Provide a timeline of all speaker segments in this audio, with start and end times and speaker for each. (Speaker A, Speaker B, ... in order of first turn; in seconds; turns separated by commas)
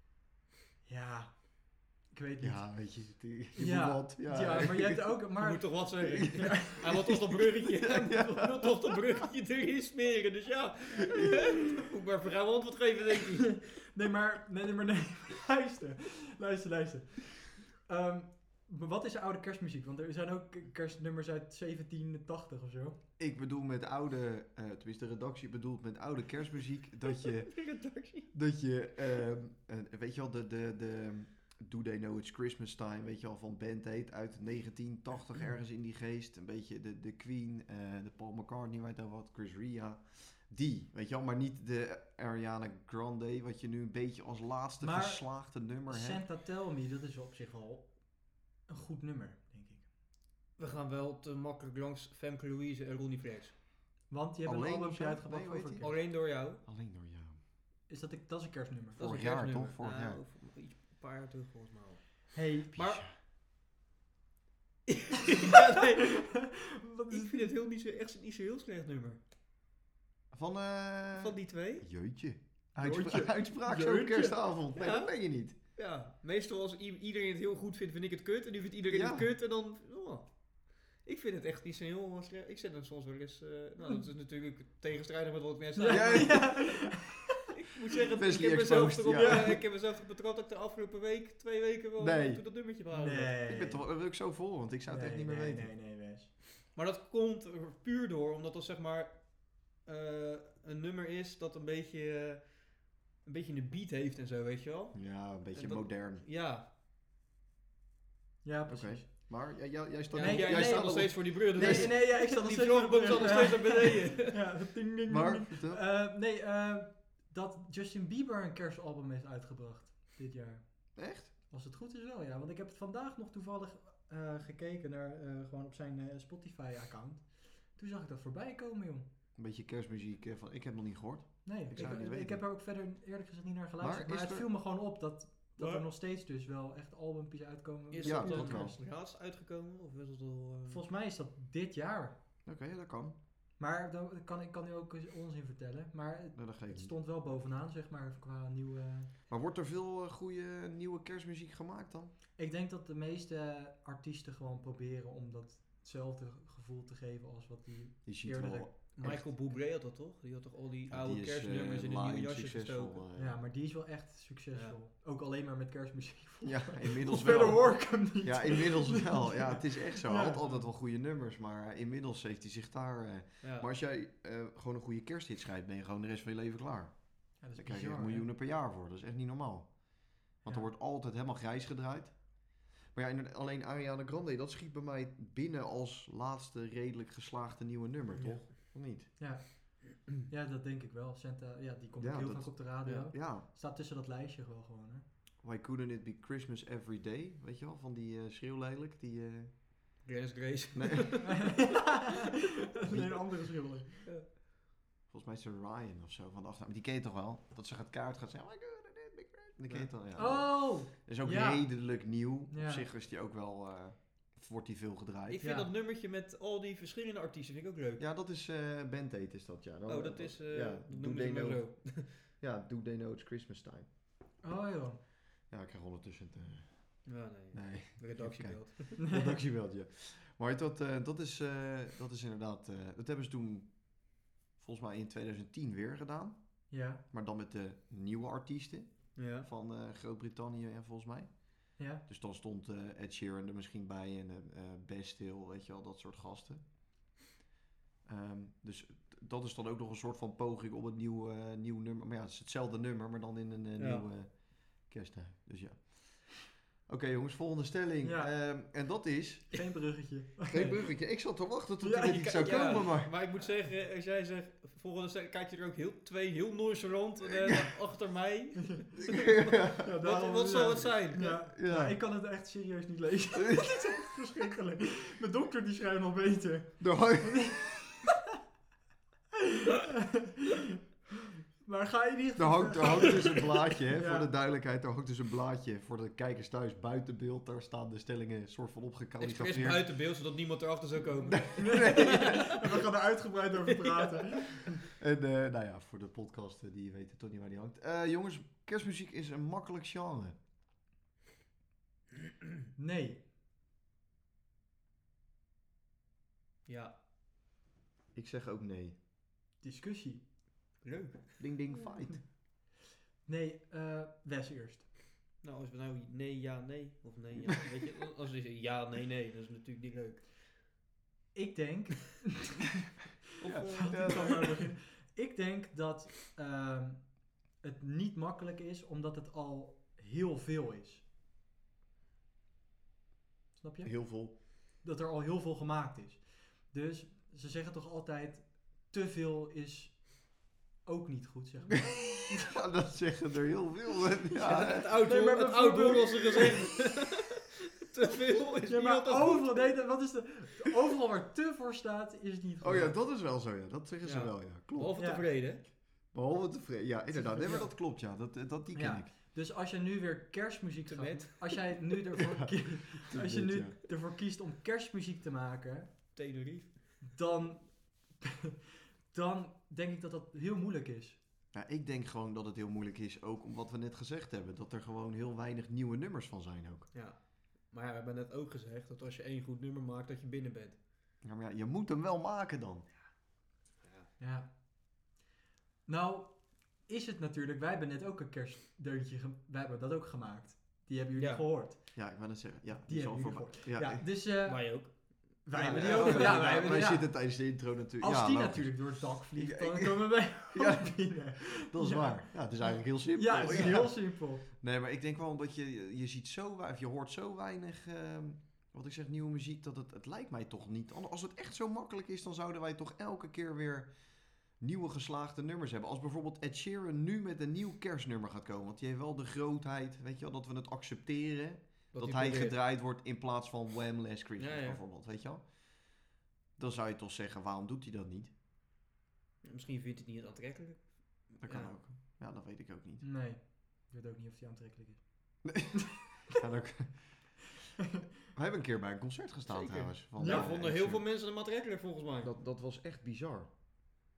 Speaker A: 0.8-2.9, Speaker B: 2.4-5.2, Speaker A: 3.5-7.0, Speaker C: 5.4-13.6, Speaker B: 6.9-9.2, Speaker A: 13.9-23.0, Speaker B: 23.2-27.5, Speaker C: 27.1-28.3, Speaker B: 28.3-46.2, Speaker A: 44.8-49.9, Speaker C: 50.6-53.6, Speaker A: 54.1-55.9, Speaker B: 54.5-57.4, Speaker C: 55.8-56.6, Speaker A: 57.9-59.0, Speaker B: 59.0-60.2, Speaker C: 59.0-63.0, Speaker A: 62.3-63.0, Speaker B: 62.7-63.1, Speaker C: 64.9-66.3, Speaker A: 66.2-67.5, Speaker C: 67.1-69.2, Speaker B: 70.3-75.5, Speaker C: 71.2-71.9, Speaker A: 72.8-74.4, Speaker C: 74.8-75.1, Speaker C: 75.8-86.8, Speaker B: 78.9-79.3, Speaker A: 85.8-87.2, Speaker B: 85.9-86.8, Speaker C: 87.5-93.3, Speaker B: 88.2-89.6, Speaker A: 89.1-89.5, Speaker B: 92.0-92.4, Speaker A: 92.9-93.8, Speaker B: 93.5-95.7, Speaker A: 94.9-96.3, Speaker C: 96.8-106.7, Speaker B: 104.9-106.2, Speaker A: 108.4-109.3, Speaker B: 108.7-112.0, Speaker C: 110.1-114.3, Speaker A: 110.2-121.0, Speaker B: 115.1-115.8, Speaker B: 121.0-121.3, Speaker A: 121.5-129.1, Speaker B: 129.4-132.4, Speaker A: 131.4-138.8, Speaker B: 133.8-134.5, Speaker C: 135.6-135.8, Speaker C: 137.9-140.8, Speaker B: 138.0-138.8, Speaker A: 140.7-142.2, Speaker B: 142.4-143.2, Speaker A: 143.6-149.1, Speaker B: 146.3-146.9, Speaker B: 149.3-152.1, Speaker A: 152.4-158.9, Speaker B: 158.1-159.3, Speaker C: 158.9-163.0, Speaker B: 160.9-163.4, Speaker A: 163.2-170.4, Speaker B: 166.4-189.1, Speaker C: 167.3-167.6, Speaker C: 173.4-173.7, Speaker A: 177.4-178.3, Speaker C: 188.2-188.4, Speaker A: 189.2-195.1, Speaker B: 192.0-193.4, Speaker B: 195.4-199.6, Speaker C: 200.0-201.4, Speaker B: 200.8-201.6, Speaker A: 201.3-204.1, Speaker B: 202.9-203.5, Speaker B: 205.1-215.4, Speaker A: 210.2-211.8, Speaker A: 212.5-212.9, Speaker C: 215.3-218.0, Speaker A: 215.4-215.7, Speaker B: 218.0-223.9, Speaker C: 219.9-222.1, Speaker A: 224.4-225.0, Speaker B: 225.5-246.6, Speaker C: 227.1-229.0, Speaker A: 229.0-229.4, Speaker A: 236.7-237.0, Speaker C: 239.2-239.5, Speaker A: 241.8-242.0, Speaker B: 248.1-259.6, Speaker C: 253.8-254.1, Speaker A: 258.0-258.3, Speaker A: 259.5-260.8, Speaker B: 260.5-263.1, Speaker A: 261.8-262.9, Speaker C: 262.1-271.3, Speaker B: 269.1-269.9, Speaker A: 269.8-277.7, Speaker B: 271.1-272.0, Speaker B: 273.4-274.0, Speaker B: 276.8-277.8, Speaker A: 279.6-280.3, Speaker A: 281.6-284.3, Speaker B: 282.4-289.9, Speaker C: 289.2-292.5, Speaker B: 291.3-292.6, Speaker A: 291.6-294.7, Speaker C: 293.7-294.1, Speaker B: 294.9-300.4, Speaker A: 302.8-303.2, Speaker C: 306.7-306.9, Speaker B: 308.1-309.0, Speaker A: 309.6-310.2, Speaker C: 310.8-311.6, Speaker B: 311.4-312.2, Speaker A: 313.3-314.9, Speaker C: 315.4-320.3, Speaker A: 321.3-322.6, Speaker C: 323.4-324.5, Speaker B: 323.4-324.6, Speaker A: 323.7-331.0, Speaker A: 333.6-342.4, Speaker B: 333.8-334.4, Speaker B: 342.3-344.9, Speaker A: 344.4-346.6, Speaker C: 344.4-349.8, Speaker A: 348.7-353.0, Speaker B: 352.6-355.0, Speaker C: 354.0-355.6, Speaker A: 355.0-355.3, Speaker B: 356.1-359.1, Speaker A: 357.1-357.8, Speaker A: 358.7-366.0, Speaker C: 360.9-361.8, Speaker B: 362.2-363.8, Speaker C: 366.1-367.0, Speaker A: 367.1-368.3, Speaker A: 369.1-371.2, Speaker B: 371.5-376.9, Speaker C: 376.9-380.8, Speaker B: 381.2-382.9, Speaker C: 383.8-384.1, Speaker A: 384.2-384.5, Speaker A: 385.9-392.0, Speaker C: 391.2-391.4, Speaker B: 391.9-394.1, Speaker A: 392.9-404.4, Speaker C: 394.4-397.0, Speaker B: 395.6-426.0, Speaker C: 403.4-403.8, Speaker C: 421.9-422.6, Speaker C: 424.4-424.8, Speaker B: 426.6-428.3, Speaker C: 429.4-431.8, Speaker B: 431.4-433.1, Speaker A: 433.0-435.6, Speaker B: 435.4-437.4, Speaker B: 438.3-441.1, Speaker C: 439.5-442.3, Speaker A: 440.2-440.5, Speaker B: 442.2-443.5